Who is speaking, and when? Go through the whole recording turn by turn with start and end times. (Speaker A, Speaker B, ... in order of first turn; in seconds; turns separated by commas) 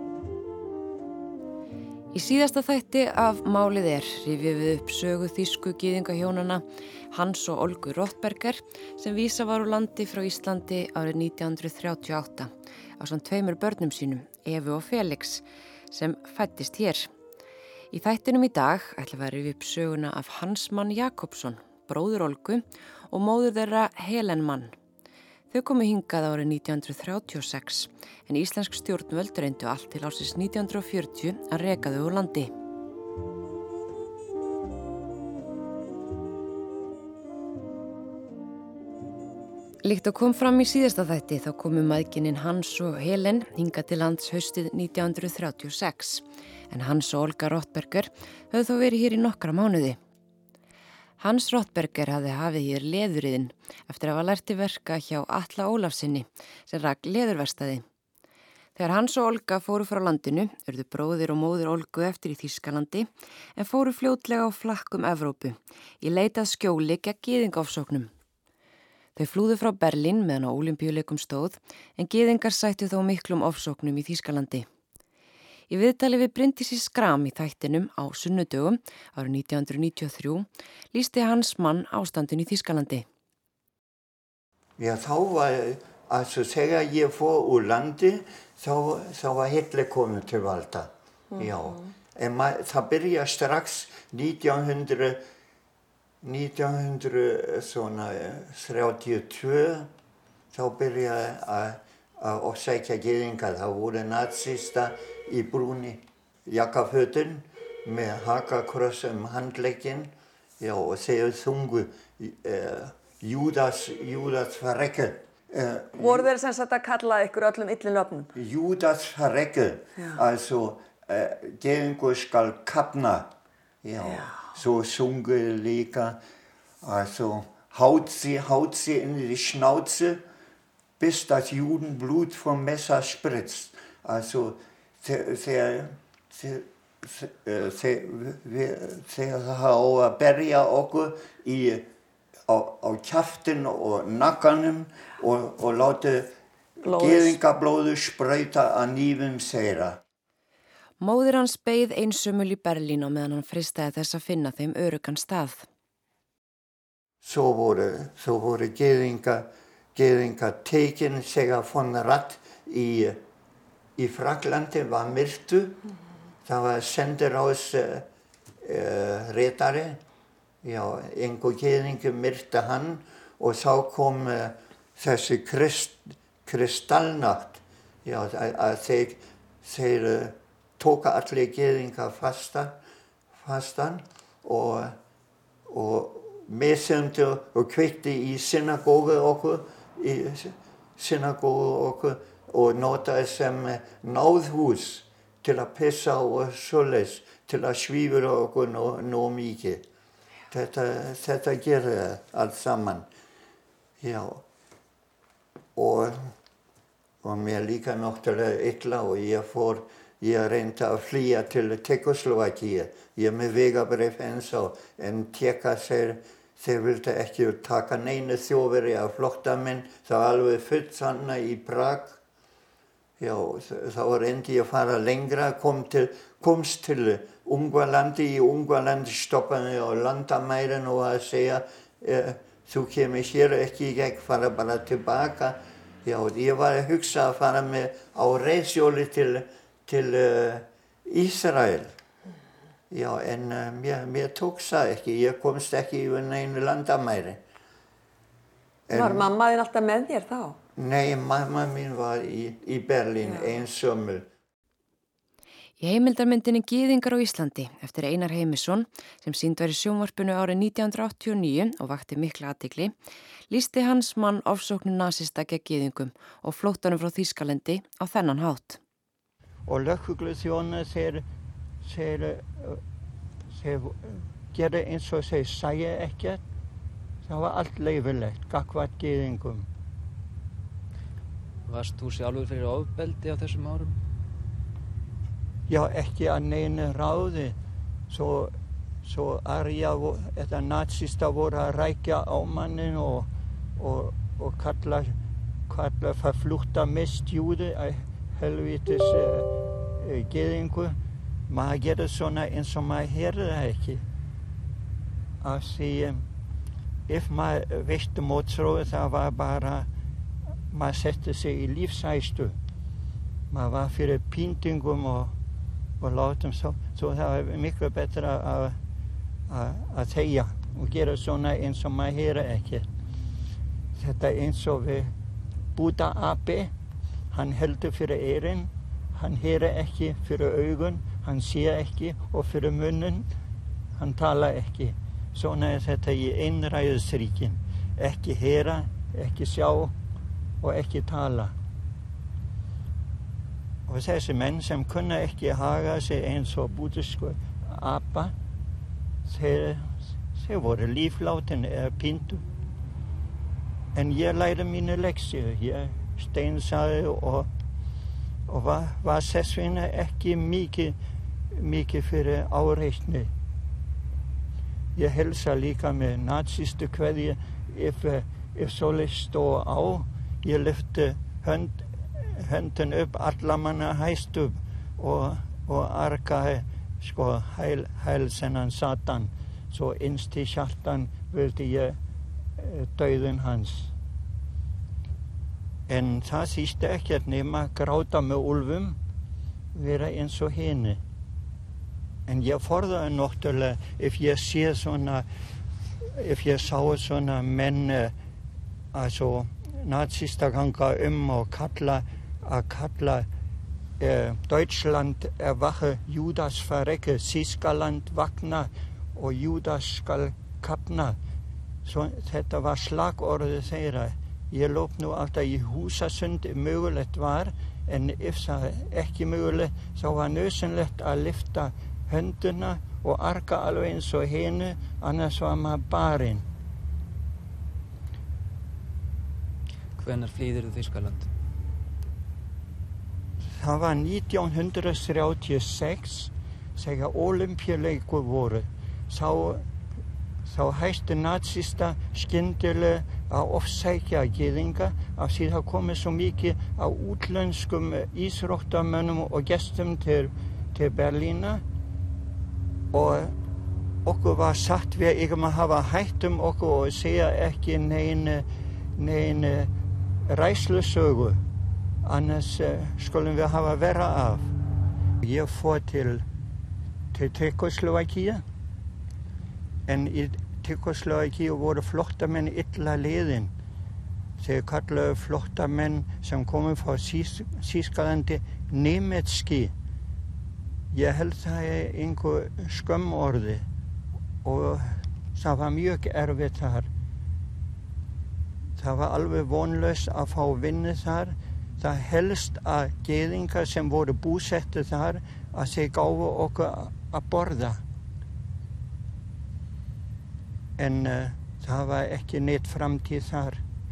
Speaker A: 2.1-17.1, Speaker A: 17.9-24.7, Speaker A: 25.5-32.5, Speaker A: 39.8-50.0, Speaker A: 51.2-57.8, Speaker A: 58.8-68.1, Speaker A: 69.2-74.7, Speaker A: 75.7-83.0, Speaker B: 84.8-95.2, Speaker B: 96.2-99.9, Speaker B: 100.5-116.3, Speaker C: 115.9-118.3, Speaker B: 118.3-126.2, Speaker C: 124.1-124.4, Speaker B: 126.8-130.2, Speaker B: 131.0-141.9, Speaker B: 142.5-150.0, Speaker C: 146.8-147.4, Speaker A: 151.0-155.7, Speaker B: 157.2-163.2, Speaker B: 163.9-165.8, Speaker B: 166.4-168.1, Speaker B: 168.6-170.0, Speaker B: 170.6-182.8, Speaker B: 183.3-185.0, Speaker B: 185.7-199.9, Speaker B: 200.5-203.1, Speaker B: 204.0-204.4, Speaker B: 205.8-206.3, Speaker B: 207.2-222.2, Speaker B: 223.2-241.9, Speaker B: 242.9-247.4, Speaker B: 248.9-249.3, Speaker C: 248.9-250.6, Speaker B: 250.8-254.3, Speaker C: 253.2-253.5, Speaker A: 255.8-262.9, Speaker A: 263.5-268.8, Speaker D: 269.7-271.2, Speaker D: 271.8-272.8, Speaker D: 273.5-276.4, Speaker D: 277.2-279.7, Speaker E: 281.7-283.9, Speaker D: 285.7-287.6, Speaker D: 288.1-288.5, Speaker D: 289.0-295.1, Speaker D: 295.7-301.0, Speaker D: 301.5-304.0, Speaker D: 305.4-306.3, Speaker D: 307.1-309.9, Speaker D: 310.7-312.6, Speaker D: 313.5-315.3, Speaker D: 316.0-318.8, Speaker D: 319.5-322.9, Speaker D: 324.0-325.1, Speaker D: 325.8-326.7, Speaker D: 327.3-333.3, Speaker D: 333.9-339.9, Speaker D: 340.6-341.6, Speaker D: 343.9-348.3, Speaker D: 349.2-352.4, Speaker D: 353.9-357.5, Speaker D: 358.5-360.9, Speaker D: 361.5-363.3, Speaker D: 364.9-382.0, Speaker D: 382.6-383.9, Speaker D: 385.9-389.0, Speaker D: 389.7-391.0, Speaker D: 392.3-395.3, Speaker D: 396.1-398.1, Speaker D: 398.9-403.3, Speaker D: 404.0-411.2, Speaker D: 411.8-426.4, Speaker E: 430.0-431.3, Speaker D: 433.6-439.6, Speaker D: 440.4-451.6, Speaker D: 452.9-453.3, Speaker D: 454.1-458.4, Speaker D: 459.0-459.7, Speaker D: 460.3-461.4, Speaker D: 462.0-464.5, Speaker D: 465.2-466.2, Speaker D: 467.1-468.4, Speaker D: 469.9-473.5, Speaker D: 474.4-479.7, Speaker D: 480.9-483.7, Speaker D: 484.4-486.9, Speaker D: 488.8-497.8, Speaker D: 500.8-503.6